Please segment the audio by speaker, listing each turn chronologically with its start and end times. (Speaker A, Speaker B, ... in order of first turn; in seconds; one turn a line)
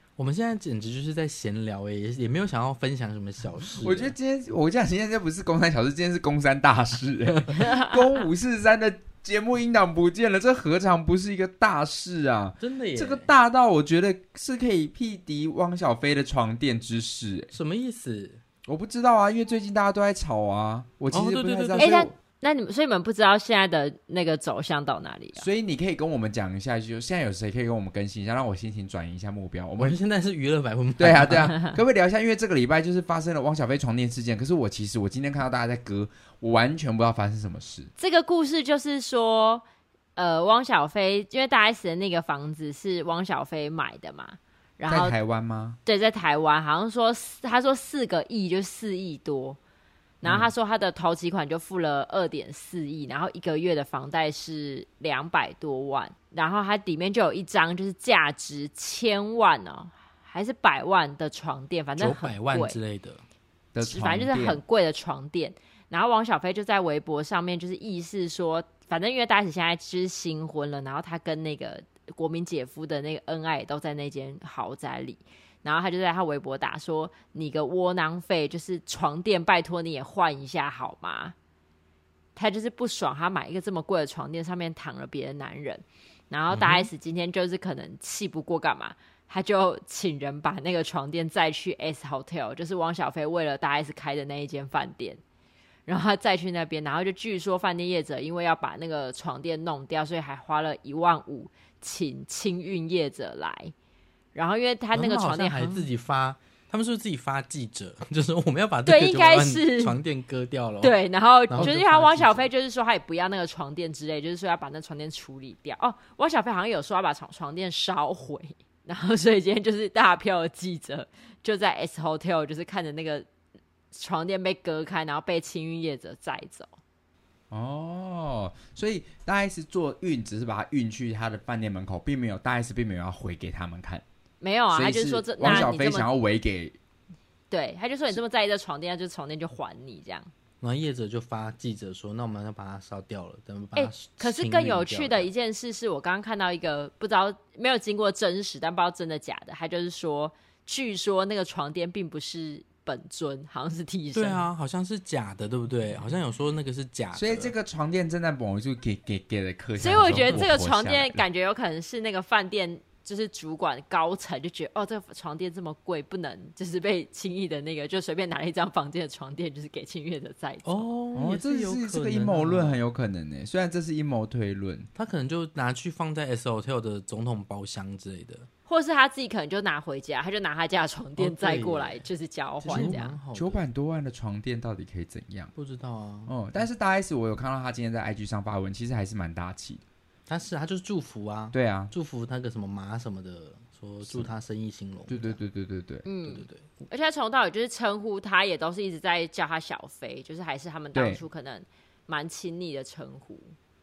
Speaker A: 0.2-4.1
Speaker B: 3.8-17.5
Speaker A: 12.6-13.3
Speaker A: 17.5-18.4
Speaker B: 18.7-22.1
Speaker A: 21.1-22.0
Speaker C: 21.8-25.5
Speaker B: 25.4-30.0
Speaker A: 29.8-31.7
Speaker B: 31.0-37.9
Speaker C: 38.0-39.6
Speaker C: 40.2-45.2
Speaker B: 44.9-45.8
Speaker C: 45.9-49.6
Speaker C: 50.2-62.8
Speaker B: 50.2-50.5
Speaker A: 62.0-63.2
Speaker B: 63.7-64.6
Speaker C: 63.8-81.3
Speaker C: 82.4-95.2
Speaker A: 86.5-86.9
Speaker C: 95.9-103.7
Speaker C: 104.3-105.9
Speaker A: 104.9-111.0
Speaker C: 108.9-110.0
Speaker C: 110.8-123.3
Speaker A: 111.5-112.5
Speaker C: 123.9-126.7
Speaker B: 127.5-134.0
Speaker C: 134.4-136.1
Speaker B: 134.7-136.8
Speaker A: 135.4-135.7
Speaker C: 137.5-140.3
Speaker A: 140.6-145.3
Speaker C: 143.8-154.5
Speaker A: 154.2-157.5
Speaker B: 157.2-161.2
Speaker C: 159.8-170.9
Speaker A: 160.1-160.4
Speaker A: 170.7-172.8
Speaker B: 171.2-174.9
Speaker A: 174.9-178.5
Speaker C: 178.7-183.2
Speaker A: 181.2-182.0
Speaker A: 182.6-183.7
Speaker B: 182.7-185.5
Speaker A: 185.6-186.3
Speaker B: 186.3-189.8
Speaker A: 190.3-195.4
Speaker B: 191.5-191.9
Speaker B: 194.1-194.3
Speaker B: 195.1-196.1
Speaker C: 196.1-203.6
Speaker A: 196.3-196.7
Speaker B: 200.9-201.2